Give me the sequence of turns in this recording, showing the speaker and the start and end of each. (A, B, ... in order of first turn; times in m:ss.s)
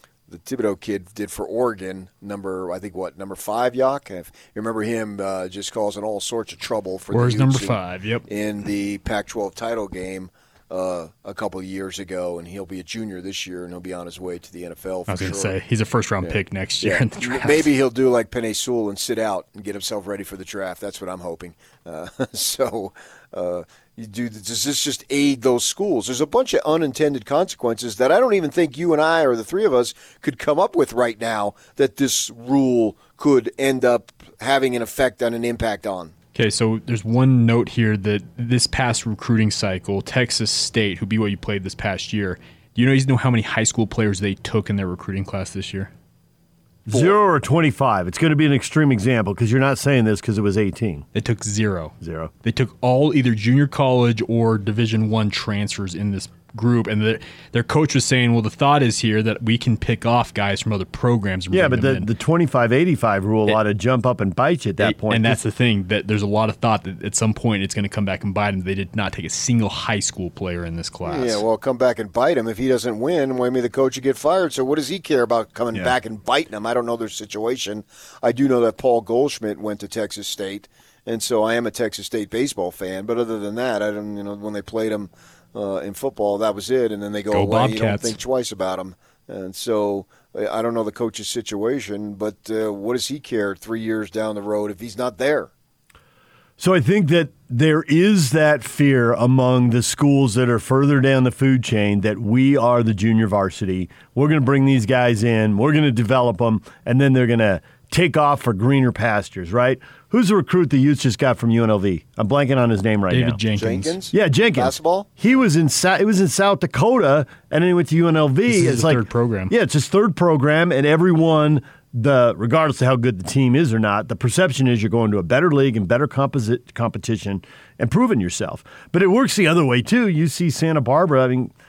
0:00.3-0:15.6 A
0:07.1-0:08.2 B
0:15.1-0:17.7 B
0:16.2-0:36.1 A
0:36.4-0:45.9 B
0:46.9-0:51.1 C
0:51.2-1:02.1 B
0:52.0-0:52.3 C
1:01.5-1:05.4 C
1:04.8-1:11.4 B
1:11.0-1:35.5 A
1:27.3-1:28.2 B
1:36.6-1:53.4 C
1:53.1-1:54.0 B
1:53.5-1:55.1 A
1:54.1-2:11.5 C
1:58.5-1:59.5 B